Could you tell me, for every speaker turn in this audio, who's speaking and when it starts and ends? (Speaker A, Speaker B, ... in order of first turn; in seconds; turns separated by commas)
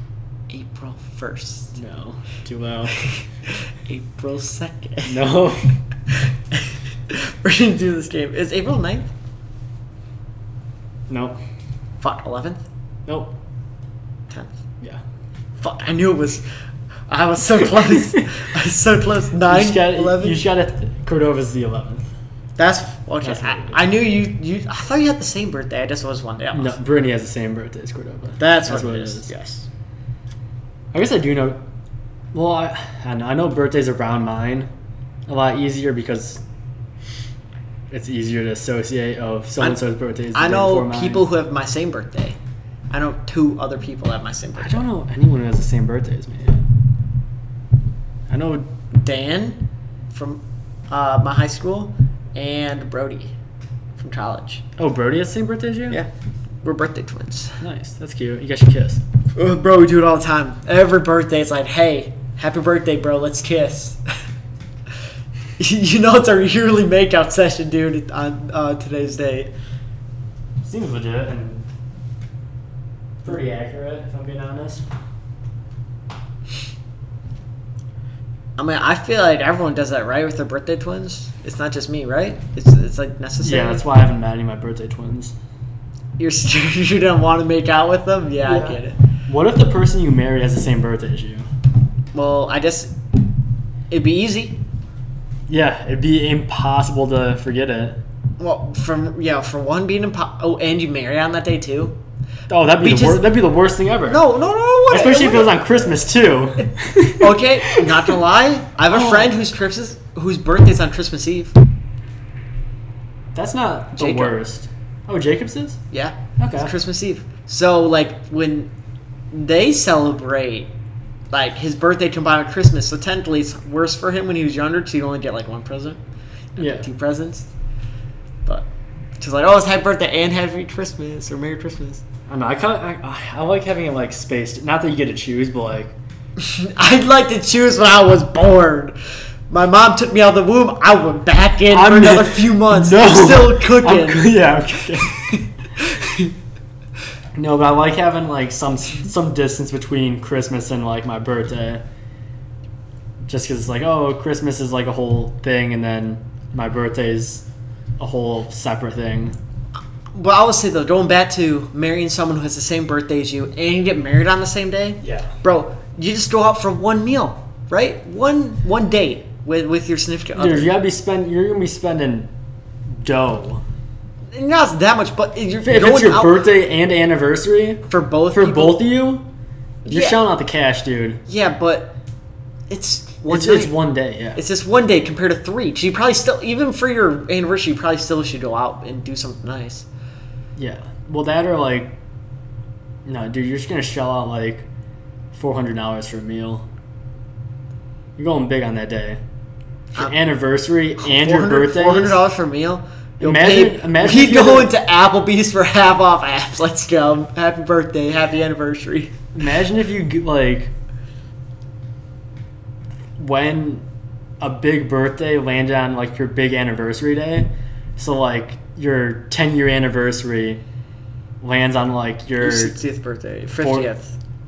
Speaker A: 0.5-1.8, Speaker B: 1.8-3.0, Speaker A: 2.9-5.2, Speaker B: 5.1-5.8, Speaker A: 6.1-9.1, Speaker B: 11.1-11.4, Speaker A: 12.0-12.6, Speaker B: 13.1-13.3, Speaker A: 14.3-14.6, Speaker A: 15.6-16.4, Speaker A: 17.1-20.4, Speaker B: 19.4-22.1, Speaker A: 22.6-26.8, Speaker B: 23.2-23.8, Speaker B: 26.5-29.3, Speaker A: 28.4-29.7, Speaker B: 30.9-31.6, Speaker B: 32.3-34.7, Speaker B: 35.3-36.4, Speaker B: 37.9-41.2, Speaker A: 40.3-42.4, Speaker A: 42.9-44.9, Speaker B: 44.6-46.6, Speaker B: 48.3-48.7, Speaker A: 48.9-53.4, Speaker A: 54.0-54.6, Speaker B: 54.8-56.0, Speaker A: 56.6-57.6, Speaker B: 57.6-59.0, Speaker A: 59.4-64.0, Speaker A: 65.6-69.5, Speaker B: 70.6-71.7, Speaker B: 73.2-74.8, Speaker A: 78.6-83.8, Speaker B: 83.4-85.3, Speaker A: 86.2-89.0, Speaker B: 88.5-91.5, Speaker A: 92.1-93.0, Speaker A: 93.9-94.6, Speaker B: 95.5-98.0, Speaker A: 98.4-102.0, Speaker B: 102.5-104.2, Speaker A: 102.8-103.2, Speaker A: 104.1-105.6, Speaker B: 104.9-108.1, Speaker A: 107.1-111.5, Speaker B: 108.9-109.3, Speaker B: 113.3-115.8, Speaker A: 114.0-114.3, Speaker A: 115.9-118.7, Speaker B: 116.4-116.7, Speaker A: 119.3-120.7, Speaker A: 121.3-126.0, Speaker A: 126.6-127.5, Speaker B: 126.6-126.8, Speaker A: 129.2-132.0, Speaker B: 132.3-136.0, Speaker A: 136.4-139.0, Speaker A: 139.5-144.4, Speaker B: 141.7-146.3, Speaker A: 145.1-145.4, Speaker B: 147.3-151.8, Speaker B: 153.3-157.4, Speaker B: 158.0-159.3, Speaker A: 160.1-170.7, Speaker B: 165.0-165.3, Speaker B: 170.3-172.3, Speaker B: 172.9-173.6, Speaker A: 174.3-176.4, Speaker B: 175.6-179.3, Speaker A: 177.9-178.8, Speaker A: 179.8-180.2, Speaker B: 179.9-181.2, Speaker A: 181.3-181.9, Speaker A: 182.7-183.7, Speaker B: 183.3-184.4, Speaker A: 184.3-189.9, Speaker B: 190.6-192.0, Speaker B: 193.1-194.7, Speaker B: 195.3-196.7, Speaker B: 198.2-199.2, Speaker B: 200.0-202.2, Speaker A: 201.0-209.2, Speaker B: 203.2-204.7, Speaker B: 209.3-210.7, Speaker B: 213.2-213.8, Speaker B: 214.4-220.6, Speaker B: 221.4-222.8, Speaker A: 222.4-224.2, Speaker B: 223.6-223.9